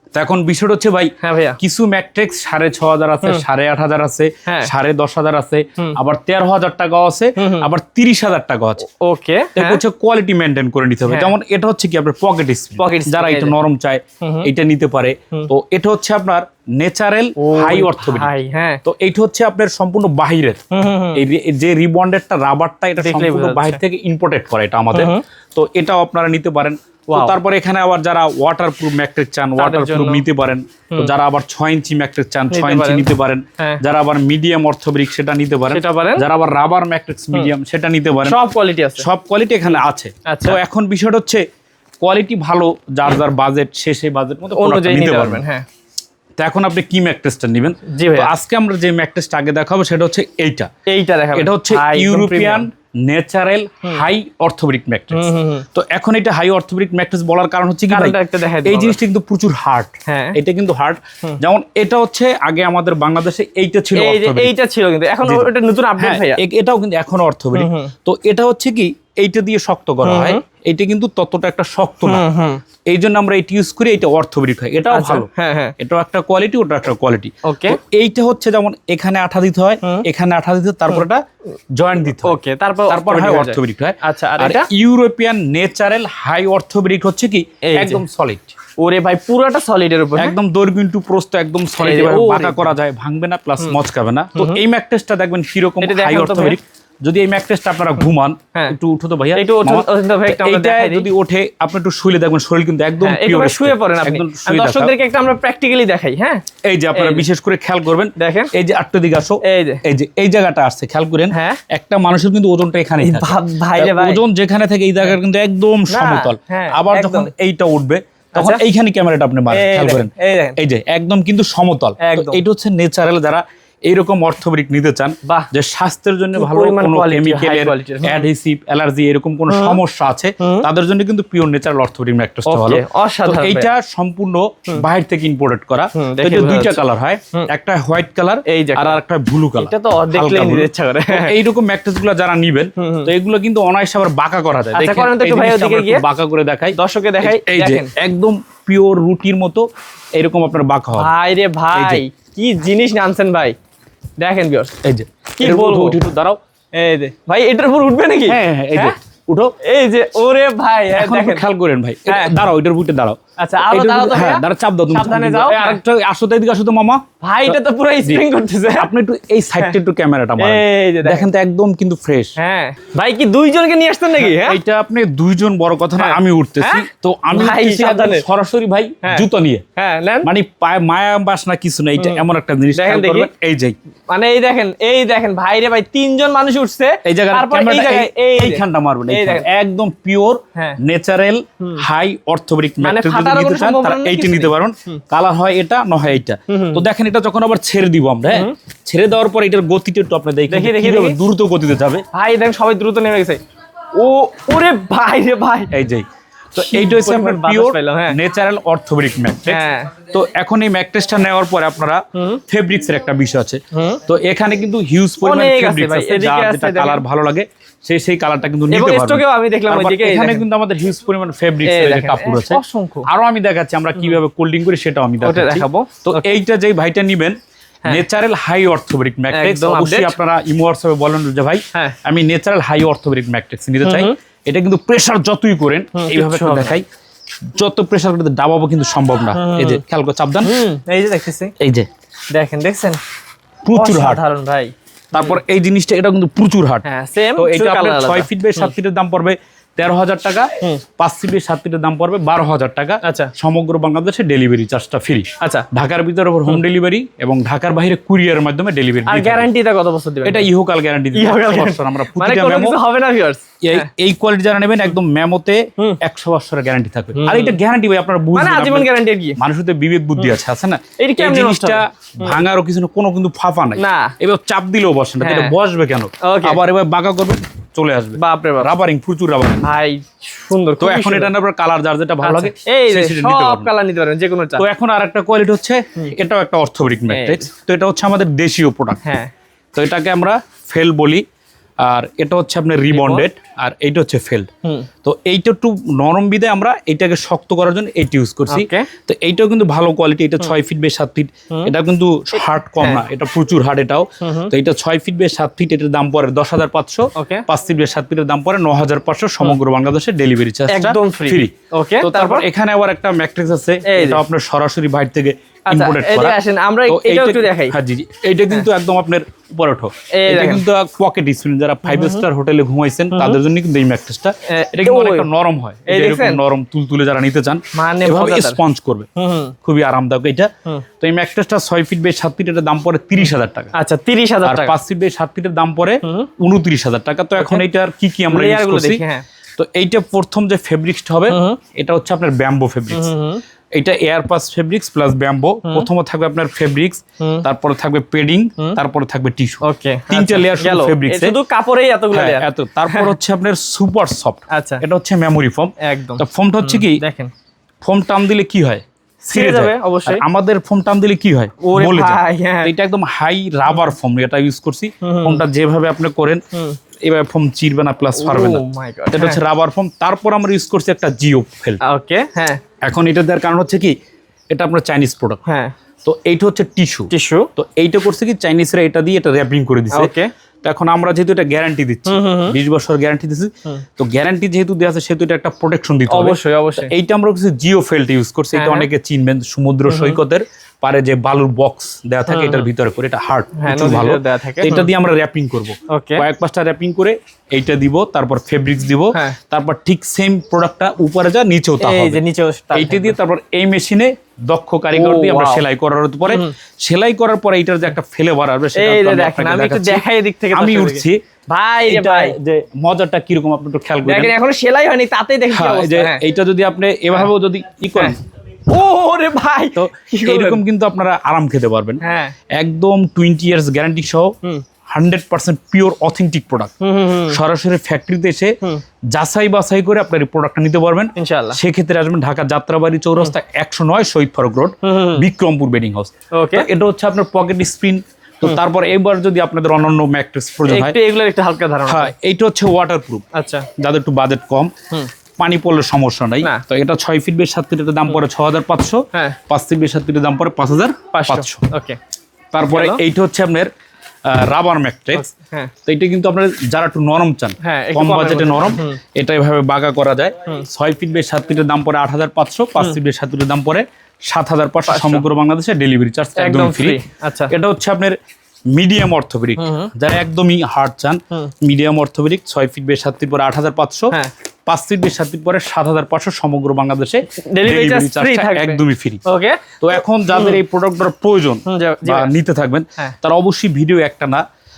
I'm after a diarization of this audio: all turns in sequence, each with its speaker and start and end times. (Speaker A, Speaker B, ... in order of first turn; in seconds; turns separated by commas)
Speaker A: 0.1-8.8, Speaker B: 1.2-1.6, Speaker B: 4.5-4.7, Speaker B: 7.4-7.7, Speaker B: 8.8-9.8, Speaker A: 9.5-18.3, Speaker B: 11.1-11.3, Speaker B: 12.8-13.6, Speaker B: 14.2-14.5, Speaker B: 17.4-18.8, Speaker A: 18.8-20.6, Speaker B: 20.7-21.2, Speaker A: 21.1-38.4, Speaker B: 23.0-23.8, Speaker B: 24.9-25.2, Speaker B: 27.1-27.4, Speaker B: 29.6-30.2, Speaker B: 32.5-33.1, Speaker B: 35.7-36.2, Speaker B: 38.2-39.0, Speaker A: 39.0-41.4, Speaker B: 39.7-40.6, Speaker A: 42.0-45.4, Speaker B: 44.5-45.6, Speaker A: 46.4-50.7, Speaker B: 47.9-48.3, Speaker B: 50.9-52.7, Speaker A: 51.3-64.5, Speaker B: 55.1-55.6, Speaker B: 57.9-59.0, Speaker B: 60.1-60.4, Speaker B: 64.0-66.4, Speaker A: 65.2-72.2, Speaker B: 67.5-67.9, Speaker B: 70.0-70.4, Speaker B: 72.0-72.6, Speaker A: 72.9-81.2, Speaker B: 74.9-75.7, Speaker B: 77.4-77.8, Speaker A: 81.8-88.5, Speaker B: 82.2-84.7, Speaker B: 87.6-88.0, Speaker B: 88.8-90.4, Speaker A: 90.2-104.9, Speaker B: 91.8-92.7, Speaker B: 94.3-94.6, Speaker B: 95.8-96.6, Speaker B: 99.3-101.1, Speaker B: 103.0-106.4, Speaker A: 106.6-151.1, Speaker B: 106.9-107.2, Speaker B: 108.2-108.5, Speaker B: 109.4-109.8, Speaker B: 111.3-111.6, Speaker B: 113.0-114.2, Speaker B: 115.9-117.3, Speaker B: 118.3-118.6, Speaker B: 119.5-120.6, Speaker B: 122.0-122.4, Speaker B: 126.3-128.3, Speaker B: 129.5-129.8, Speaker B: 130.4-130.7, Speaker B: 132.4-133.7, Speaker B: 135.9-137.5, Speaker B: 138.4-139.0, Speaker B: 139.6-141.4, Speaker B: 142.8-143.1, Speaker B: 144.7-146.0, Speaker B: 146.7-147.9, Speaker B: 151.0-153.5, Speaker A: 151.7-152.0, Speaker B: 154.2-154.7, Speaker A: 154.8-156.4, Speaker B: 155.3-156.0, Speaker B: 156.7-158.9, Speaker A: 158.2-159.5, Speaker B: 159.6-161.4, Speaker A: 160.9-172.3, Speaker B: 162.1-162.4, Speaker B: 163.4-165.8, Speaker B: 167.2-168.9, Speaker B: 170.4-171.3, Speaker B: 172.4-174.6, Speaker A: 174.2-179.6, Speaker B: 176.0-178.2, Speaker B: 179.0-180.3, Speaker A: 180.2-183.8, Speaker B: 182.0-182.2, Speaker B: 182.8-183.3, Speaker B: 184.1-189.4, Speaker A: 187.0-202.0, Speaker B: 192.8-195.0, Speaker B: 196.5-196.8, Speaker B: 200.5-201.2, Speaker B: 202.1-203.4, Speaker B: 203.9-205.7, Speaker A: 205.7-227.3, Speaker B: 206.6-208.2, Speaker B: 209.4-209.9, Speaker B: 212.1-212.4, Speaker B: 213.7-214.0, Speaker B: 215.2-217.0, Speaker B: 218.7-220.4, Speaker B: 221.6-223.1, Speaker B: 225.2-226.2, Speaker A: 227.9-236.8, Speaker B: 229.3-230.2, Speaker B: 233.8-234.1, Speaker B: 235.9-236.8, Speaker A: 237.6-240.6, Speaker B: 239.3-239.8, Speaker B: 240.4-241.5, Speaker A: 241.6-241.9, Speaker B: 242.3-243.0, Speaker A: 243.6-244.2, Speaker B: 243.7-245.4, Speaker A: 245.1-246.8, Speaker B: 246.8-248.7, Speaker A: 247.4-259.5, Speaker B: 253.0-253.3, Speaker B: 255.4-255.7, Speaker B: 259.1-260.5, Speaker A: 260.2-262.8, Speaker B: 261.1-263.9, Speaker A: 263.6-279.6, Speaker B: 267.1-267.6, Speaker B: 268.3-269.4, Speaker B: 271.0-272.4, Speaker B: 273.8-274.1, Speaker B: 275.2-275.5, Speaker B: 276.2-276.6, Speaker B: 278.1-278.7, Speaker B: 279.6-281.3, Speaker A: 280.8-283.7, Speaker B: 282.2-284.6, Speaker A: 284.6-289.0, Speaker B: 287.1-287.5, Speaker B: 289.0-289.3, Speaker A: 289.7-291.2, Speaker A: 291.8-294.5, Speaker B: 292.9-293.2, Speaker A: 295.0-329.1, Speaker B: 298.5-298.9, Speaker B: 302.8-303.0, Speaker B: 304.2-304.5, Speaker B: 307.1-307.4, Speaker B: 310.7-312.5, Speaker B: 313.9-314.2, Speaker B: 315.7-317.8, Speaker B: 320.1-320.6, Speaker B: 321.9-322.2, Speaker B: 323.1-323.4, Speaker B: 324.5-325.3, Speaker B: 325.9-326.4, Speaker B: 327.7-328.6, Speaker B: 329.2-329.5, Speaker A: 329.6-333.7, Speaker B: 333.1-334.7, Speaker A: 334.4-339.0, Speaker B: 336.0-336.3, Speaker B: 337.4-337.6, Speaker B: 338.3-339.2, Speaker A: 339.6-343.1, Speaker B: 341.3-341.6, Speaker B: 342.9-343.4, Speaker A: 343.7-351.3, Speaker B: 347.2-347.5, Speaker B: 349.6-353.1, Speaker A: 352.1-357.0, Speaker B: 354.5-354.8, Speaker B: 355.8-357.3, Speaker A: 357.8-366.4, Speaker B: 359.2-360.2, Speaker B: 361.6-362.7, Speaker B: 365.0-365.4, Speaker B: 366.5-366.8, Speaker A: 367.0-371.8, Speaker B: 368.1-369.4, Speaker B: 371.8-372.6, Speaker A: 372.8-373.9, Speaker A: 374.5-375.4, Speaker B: 375.4-375.7, Speaker A: 376.0-380.1, Speaker B: 377.1-377.5, Speaker B: 379.9-380.3, Speaker A: 380.6-402.2, Speaker B: 382.1-382.6, Speaker B: 386.1-386.9, Speaker B: 388.5-388.9, Speaker B: 389.9-390.2, Speaker B: 392.3-392.7, Speaker B: 393.6-394.9, Speaker B: 395.9-396.2, Speaker B: 399.1-399.4, Speaker B: 401.8-403.2, Speaker A: 402.7-411.2, Speaker B: 404.9-405.6, Speaker B: 406.3-406.5, Speaker B: 408.8-412.4, Speaker A: 411.8-414.3, Speaker B: 414.0-416.2, Speaker A: 415.5-418.2, Speaker B: 418.7-420.6, Speaker A: 419.8-422.0, Speaker B: 422.0-422.3, Speaker A: 422.5-424.3, Speaker A: 424.9-426.7, Speaker B: 426.8-427.4, Speaker A: 427.3-428.6, Speaker A: 429.1-441.0, Speaker B: 431.1-431.6, Speaker B: 434.8-435.2, Speaker B: 436.3-436.7, Speaker B: 440.7-442.1, Speaker A: 441.9-443.2, Speaker B: 443.3-443.7, Speaker A: 443.8-444.7, Speaker A: 445.4-451.6, Speaker B: 449.1-449.4, Speaker B: 451.1-452.0, Speaker A: 452.5-453.7, Speaker B: 452.7-453.0, Speaker A: 454.2-455.2, Speaker B: 455.1-455.7, Speaker A: 455.9-468.2, Speaker B: 457.6-459.0, Speaker B: 464.9-465.2, Speaker B: 466.4-467.5, Speaker A: 468.7-474.1, Speaker B: 469.6-469.9, Speaker A: 474.7-479.2, Speaker B: 477.4-480.6, Speaker A: 479.8-484.4, Speaker B: 481.7-482.3